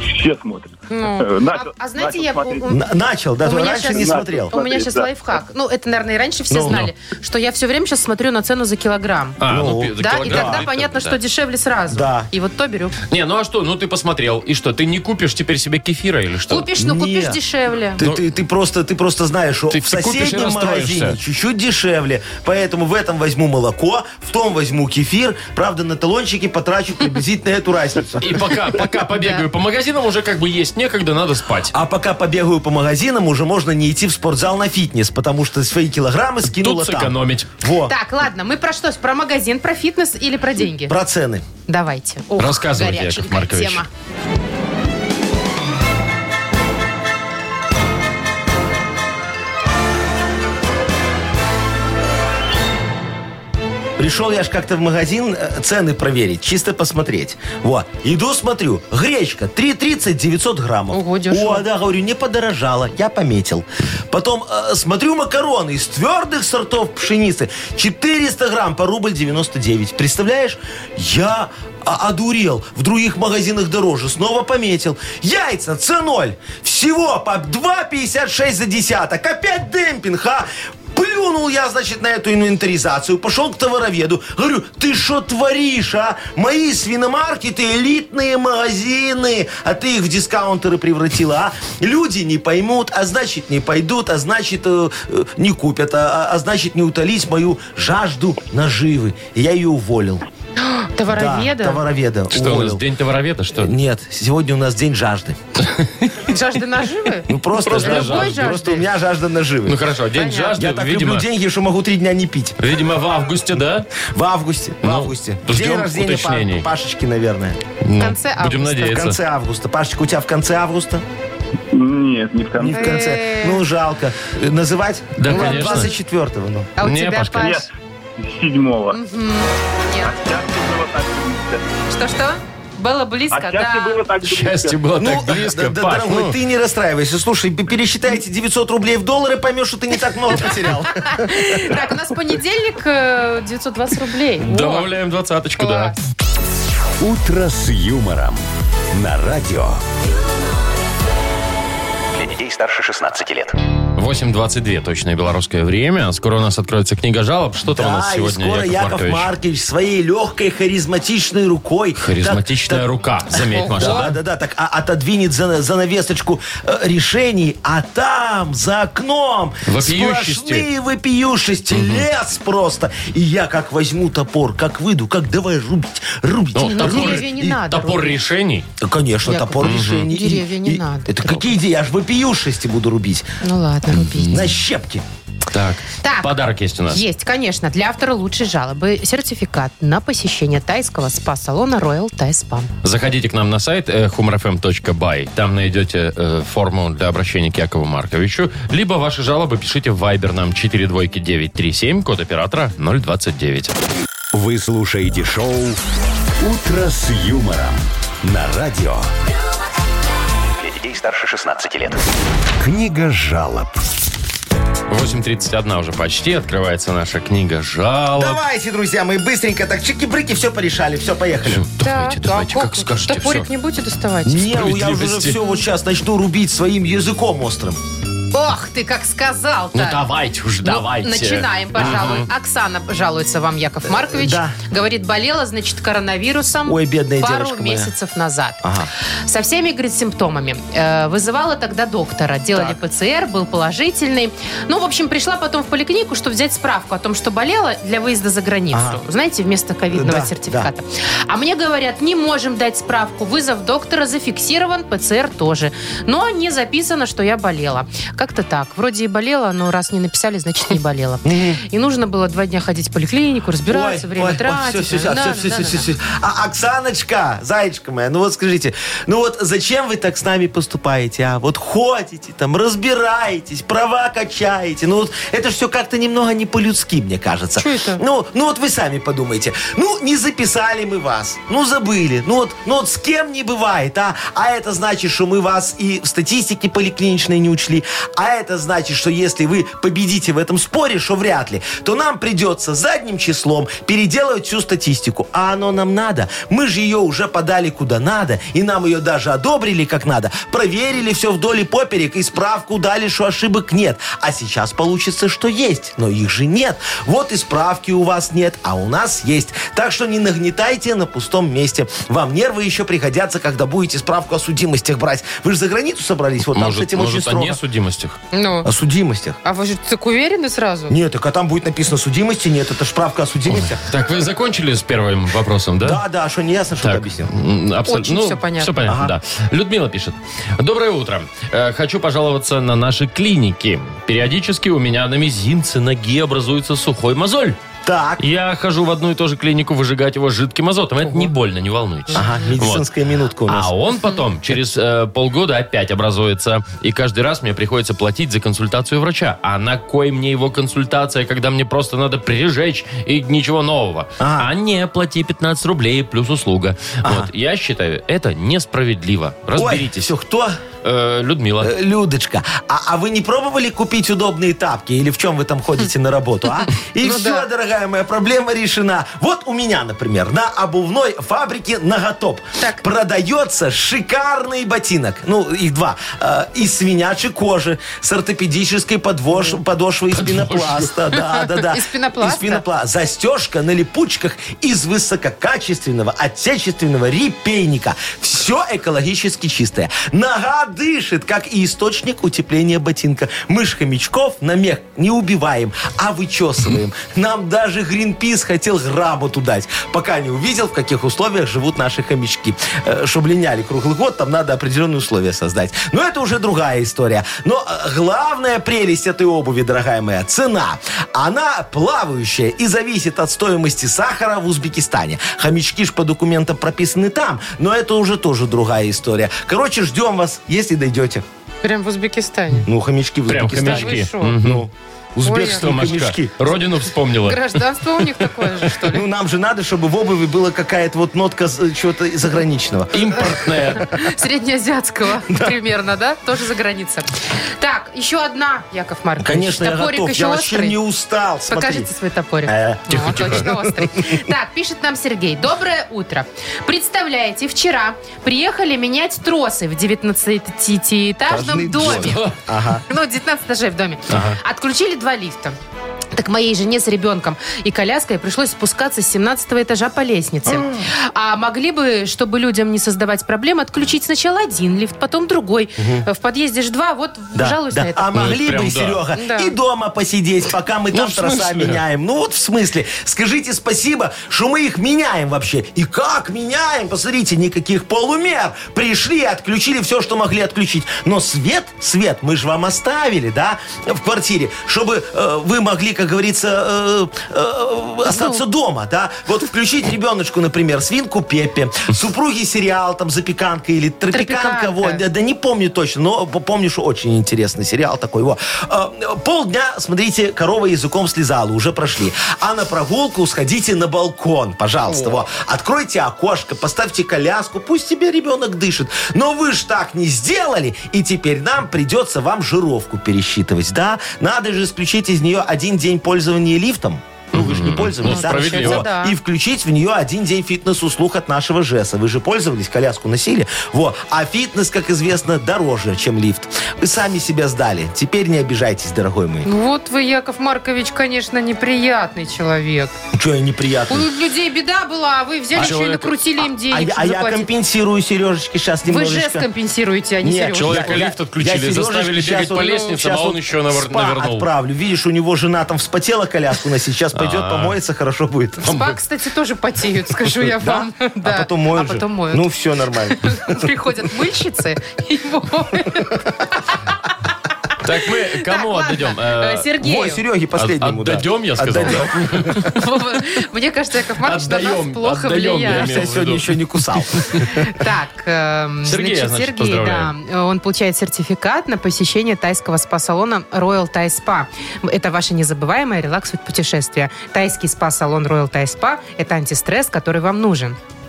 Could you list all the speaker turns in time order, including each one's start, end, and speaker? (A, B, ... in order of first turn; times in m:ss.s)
0:00.2-0:00.6 A
0:00.9-0:02.9 B
0:01.3-0:02.6 A
0:02.7-0:04.6 C
0:03.4-0:09.4 B
0:04.6-0:05.0 A
0:06.5-0:06.8 C
0:09.4-0:11.2 D
0:09.5-0:10.6 C
0:10.0-0:13.0 B
0:11.9-0:12.3 C
0:13.1-0:16.7 D
0:16.5-0:18.0 B
0:16.8-0:17.4 C
0:18.0-0:28.4 C
0:19.7-0:21.2 D
0:28.2-0:31.7 D
0:29.1-0:29.4 B
0:31.7-0:37.9 C
0:36.5-0:37.5 D
0:37.8-0:41.0 B
0:40.9-0:41.4 C
0:41.7-0:43.9 B
0:42.4-0:43.8 D
0:54.0-1:40.2 C
1:00.9-1:01.7 B
1:40.6-1:41.8 B
1:41.1-1:42.8 C
1:42.3-1:43.7 D
1:43.6-1:45.4 C
1:45.7-1:46.1 D
1:46.2-1:48.8 B
1:47.3-1:49.8 C
1:47.6-1:48.6 D
1:49.7-1:51.3 D
1:50.2-1:50.5 B
1:50.6-1:52.6 C
1:52.6-1:53.9 D
1:54.0-1:57.6 C
1:54.8-1:56.7 D
1:57.8-1:59.2 D
1:58.0-1:59.1 B
1:58.8-2:01.0 C
2:01.7-2:02.8 A
2:02.6-2:06.7 C
2:02.7-2:03.6 B
2:05.2-2:05.9 D
2:05.3-2:05.9 B
2:06.8-2:07.7 B
2:06.8-2:07.6 D
2:07.4-2:07.7 A
2:08.2-2:09.0 A
2:08.9-2:10.2 B
2:10.0-2:11.6 A
2:11.9-2:14.0 B
2:13.3-2:14.8 A
2:14.2-2:16.4 D
2:15.0-2:21.8 C
2:20.9-2:24.9 B
2:24.4-2:26.0 D
2:25.6-2:26.0 B
2:27.0-2:29.8 E
2:32.1-2:33.5 F
2:34.0-2:39.3 D
2:37.7-2:42.9 C
2:42.0-2:44.2 D
2:43.4-2:44.1 B
2:43.7-2:57.6 C
2:49.7-2:50.7 D
2:51.7-2:52.1 D
2:56.6-2:58.7 D
2:56.6-2:58.1 B
2:58.8-3:03.3 C
2:59.3-3:01.5 B
2:59.6-3:00.1 D
3:03.4-3:04.4 B
3:04.0-3:04.5 D
3:04.3-3:05.0 C
3:05.5-3:07.0 D
3:06.0-3:06.3 B
3:06.9-3:12.7 B
3:12.8-3:23.7 D
3:24.3-3:25.8 E
3:26.4-3:29.1 E
3:30.6-3:32.0 F
3:32.6-3:33.8 E
3:34.9-3:38.4 D
3:38.2-3:41.6 C
3:41.5-3:43.5 D
3:41.8-3:44.6 B
3:44.2-3:47.8 C
3:44.5-3:45.4 D
3:48.3-3:50.0 B
3:49.7-3:52.3 D
3:50.6-3:58.6 B
3:51.8-3:52.2 C
3:53.9-3:54.6 C
3:56.7-3:57.9 C
3:58.6-3:58.9 C
3:59.3-4:25.9 B
4:08.7-4:09.0 C
4:09.9-4:10.7 C
4:21.2-4:21.6 C
4:23.7-5:17.6 C
4:37.6-4:38.0 B
5:16.5-5:18.2 D
5:18.3-5:18.7 B
5:18.6-5:19.4 C
5:19.4-5:21.0 B
5:20.9-5:23.8 C
5:23.5-5:26.0 D
5:25.8-5:27.3 C
5:26.8-5:37.6 D
5:27.9-5:28.7 B
5:28.8-5:29.1 C
5:37.8-5:38.2 C
5:38.2-5:42.9 D
5:42.1-5:43.7 C
5:43.5-6:00.1 D
5:54.2-5:54.5 C
5:57.0-5:57.3 C
5:59.6-6:00.6 C
6:00.8-6:01.7 D
6:01.6-7:01.2 C
6:07.0-6:07.4 B
6:20.1-6:20.9 D
6:21.2-6:22.6 B
7:01.6-7:02.7 B
7:02.7-7:06.5 C
7:03.3-7:04.6 D
7:03.6-7:04.4 B
7:05.2-7:05.8 B
7:05.4-7:08.0 D
7:07.2-7:09.0 B
7:08.8-7:13.8 C
7:12.9-7:14.0 D
7:13.8-7:20.8 B
7:15.3-7:15.6 C
7:19.2-7:21.9 C
7:21.5-7:32.3 B
7:22.5-7:24.2 C
7:22.9-7:23.5 D
7:31.3-7:32.8 C
7:31.8-7:32.4 D
7:32.9-7:35.6 B
7:34.1-7:34.4 D
7:36.2-7:48.2 B
7:40.5-7:40.8 C
7:45.8-7:46.1 C
7:47.3-8:49.5 C
7:48.2-7:49.0 D
7:49.1-7:49.5 B
7:50.9-7:51.8 D
8:08.1-8:08.4 B
8:14.1-8:15.0 B
8:37.3-8:38.9 D
8:38.0-8:39.2 B
8:49.4-8:52.9 B
8:53.1-8:54.1 C
8:53.9-8:57.5 B
8:55.6-8:56.2 D
8:56.6-8:59.5 C
8:58.9-9:01.0 B
9:00.2-9:08.7 C
9:00.5-9:04.5 D
9:07.2-9:07.8 D
9:08.6-9:12.6 B
9:08.6-9:09.0 D
9:10.3-9:13.7 C
9:13.1-9:16.8 B
9:17.8-9:19.7 D
9:18.4-9:20.2 B
9:19.8-9:22.7 C
9:20.6-9:22.7 D
9:22.6-9:26.0 B
9:24.2-9:26.6 D
9:25.6-9:27.7 C
9:27.5-9:40.8 B
9:28.8-9:30.1 D